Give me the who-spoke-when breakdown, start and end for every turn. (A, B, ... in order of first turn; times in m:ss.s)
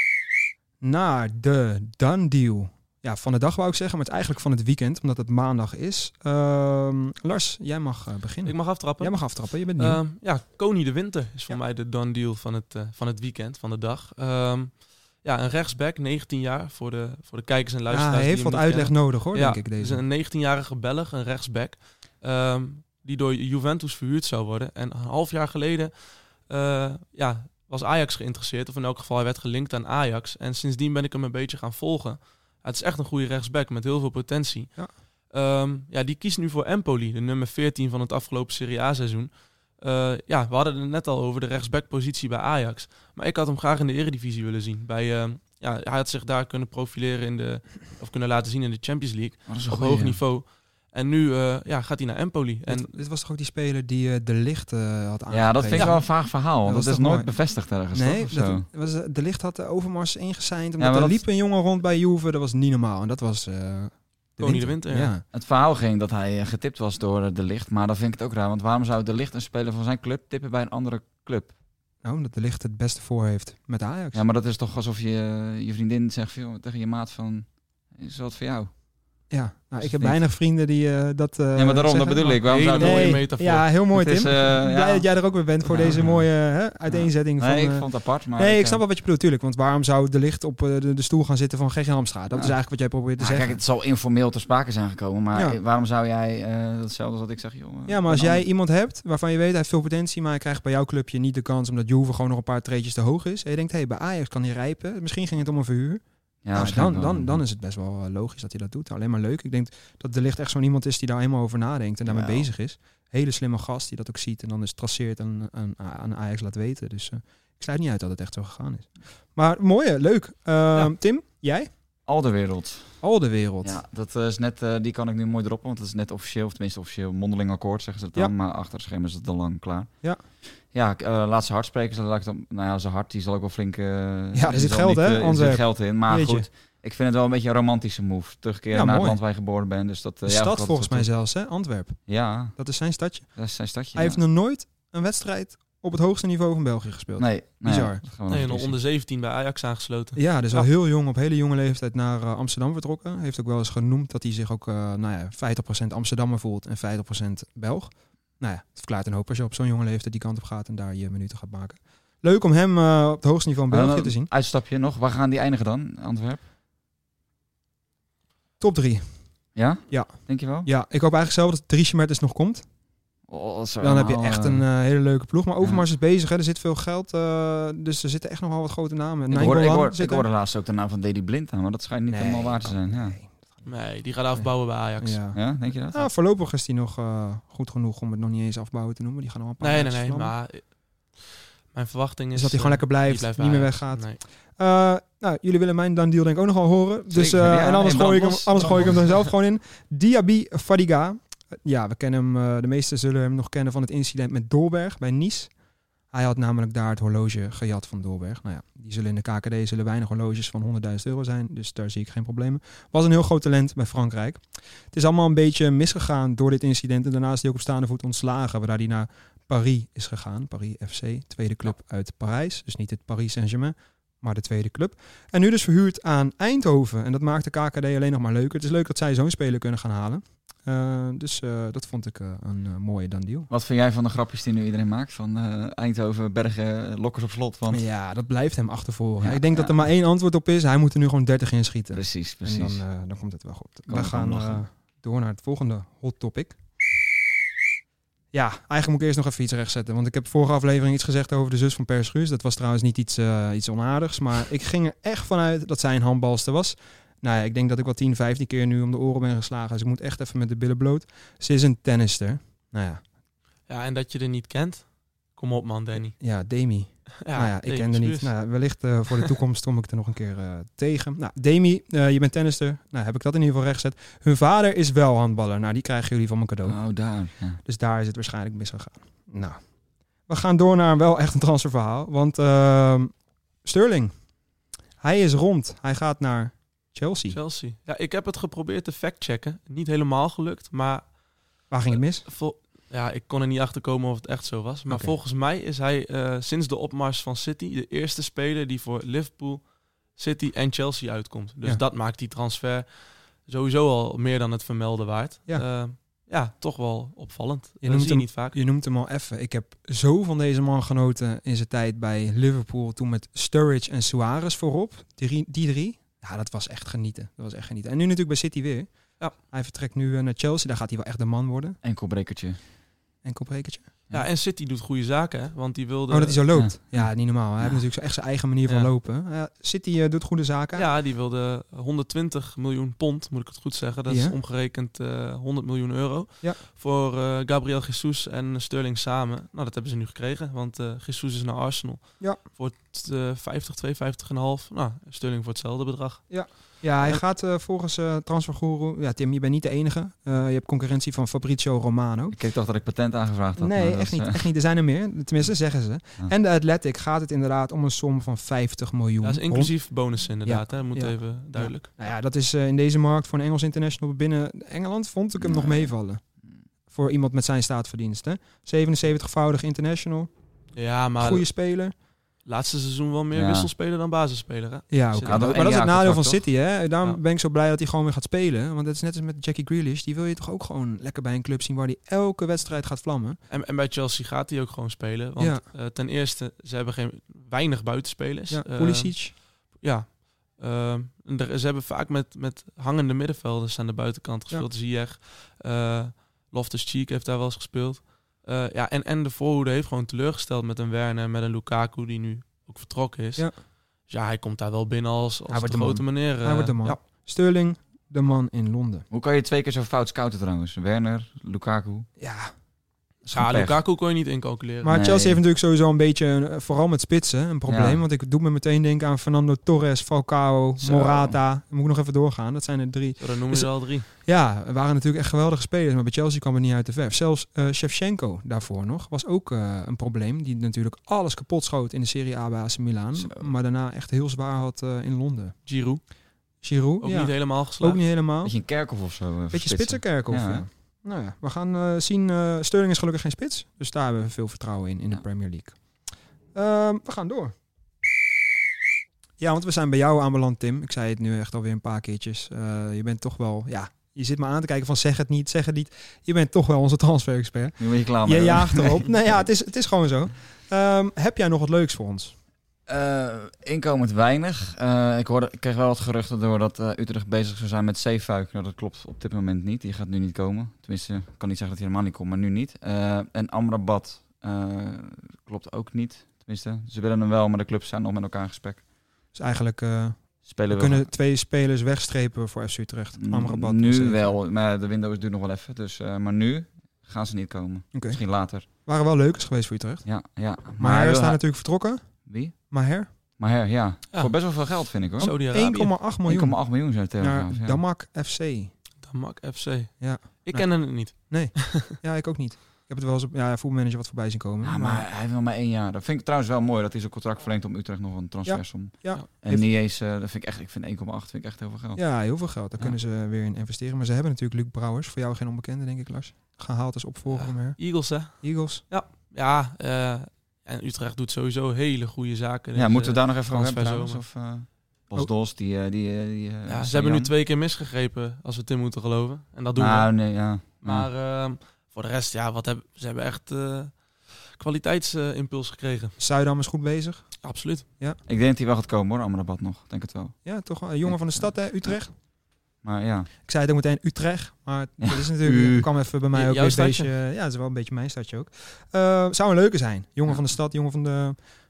0:00.8-0:10.0 A
0:08.4-0:52.9 B
0:17.9-0:20.0 A
0:49.5-0:50.2 C
0:52.7-0:57.3 A
0:55.3-0:58.6 C
0:55.8-0:56.0 B
0:57.9-1:05.2 A
1:00.8-1:01.2 C
1:04.4-1:05.1 B
1:05.3-1:11.5 C
1:12.0-1:14.2 A
1:14.1-1:18.7 C
1:19.3-1:33.6 A
1:19.8-1:20.2 C
1:21.5-1:23.4 C
1:22.4-1:23.7 B
1:23.9-1:25.1 C
1:25.6-1:26.3 C
1:26.9-1:28.8 C
1:33.2-1:38.4 C
1:37.9-1:46.0 A
1:46.4-1:47.4 C
1:46.5-2:01.7 A
1:52.1-1:52.5 C
2:02.1-2:03.0 C
2:03.0-2:03.8 A
2:03.6-2:09.9 C
2:10.6-2:21.1 C
2:14.3-2:16.5 A
2:18.7-2:19.2 A
2:20.2-2:23.4 A
2:22.1-2:22.5 C
2:23.4-2:24.2 C
2:23.9-2:28.0 A
2:27.2-2:28.8 C
2:28.3-2:30.7 B
2:30.2-2:44.3 A
2:43.7-2:46.4 C
2:48.6-2:49.2 A
2:49.5-2:50.7 C
2:49.9-2:52.6 A
2:53.3-2:54.6 C
2:53.8-3:00.2 A
2:59.3-3:03.2 C
3:02.1-3:03.7 A
3:03.6-3:05.2 B
3:04.3-3:10.3 A
3:05.3-3:06.1 C
3:09.6-3:14.2 B
3:12.4-3:25.5 A
3:17.1-3:19.2 C
3:26.1-3:53.5 A
3:53.5-3:57.8 C
3:57.7-4:06.6 A
3:59.2-3:59.8 C
4:01.9-4:02.8 C
4:03.9-4:04.6 C
4:08.3-4:23.0 A
4:23.7-4:26.2 B
4:26.2-4:36.8 A
4:27.2-4:28.3 B
4:36.6-4:37.6 C
4:37.6-4:39.6 A
4:40.3-4:44.1 A
4:45.0-4:47.4 A
4:47.3-4:51.0 B
4:51.7-4:52.2 A
4:51.9-4:59.6 B
5:00.2-5:08.6 B
5:07.8-5:21.8 A
5:21.8-5:22.6 C
5:23.2-5:23.9 A
5:24.1-5:26.4 B
5:26.1-5:30.9 A
5:26.5-5:27.8 C
5:30.8-5:47.2 B
5:34.1-5:34.4 A
5:46.3-5:52.4 A
5:52.3-5:54.4 C
5:53.6-5:59.8 A
5:59.2-6:01.9 B
6:00.4-6:06.2 A
6:05.4-6:05.9 C
6:06.9-6:10.3 A
6:10.8-6:11.4 B
6:11.2-6:11.9 A
6:12.4-6:15.6 B
6:13.3-6:13.7 C
6:14.9-6:23.4 A
6:15.2-6:16.4 C
6:23.5-6:43.5 B
6:25.4-6:25.6 A
6:28.5-6:29.4 A
6:44.1-6:47.0 B
6:45.5-6:49.0 A
6:49.1-6:52.1 C
6:52.2-6:52.5 A
6:53.3-6:53.8 C
6:53.3-6:54.9 B
6:54.8-7:15.6 A
6:54.9-6:55.4 C
6:57.7-6:58.0 C
7:00.8-7:01.4 C
7:03.2-7:04.1 B
7:13.2-7:13.5 C
7:15.6-7:16.0 B
7:16.6-7:18.5 A
7:17.0-7:18.0 B
7:18.4-7:20.6 C
7:19.5-7:25.8 A
7:26.5-7:27.5 A
7:29.4-7:42.4 A
7:37.8-7:39.5 C
7:42.9-7:58.8 C
7:59.3-8:04.3 A
8:00.4-8:01.1 C
8:03.2-8:08.6 C
8:07.9-8:10.1 A
8:10.0-8:11.4 C
8:10.8-8:12.1 A
8:12.2-8:12.6 C
8:12.7-8:13.1 A
8:13.4-8:15.3 C
8:15.2-8:16.0 B
8:15.2-8:18.7 A
8:16.3-8:17.8 C
8:19.0-8:21.9 B
8:20.0-8:25.1 A
8:24.6-8:32.0 C
8:28.4-8:29.6 A
8:32.0-8:38.8 A
8:37.3-8:44.2 B
8:42.8-8:47.3 C
8:46.7-8:50.2 B
8:49.8-8:51.1 C
8:50.8-8:56.2 B
8:56.2-8:57.4 A
8:57.4-8:57.9 B
8:58.2-9:00.4 C
9:00.4-9:02.1 A
9:01.0-9:01.5 C
9:02.8-9:03.3 C
9:03.4-9:11.4 A
9:05.0-9:05.9 C
9:06.3-9:07.1 B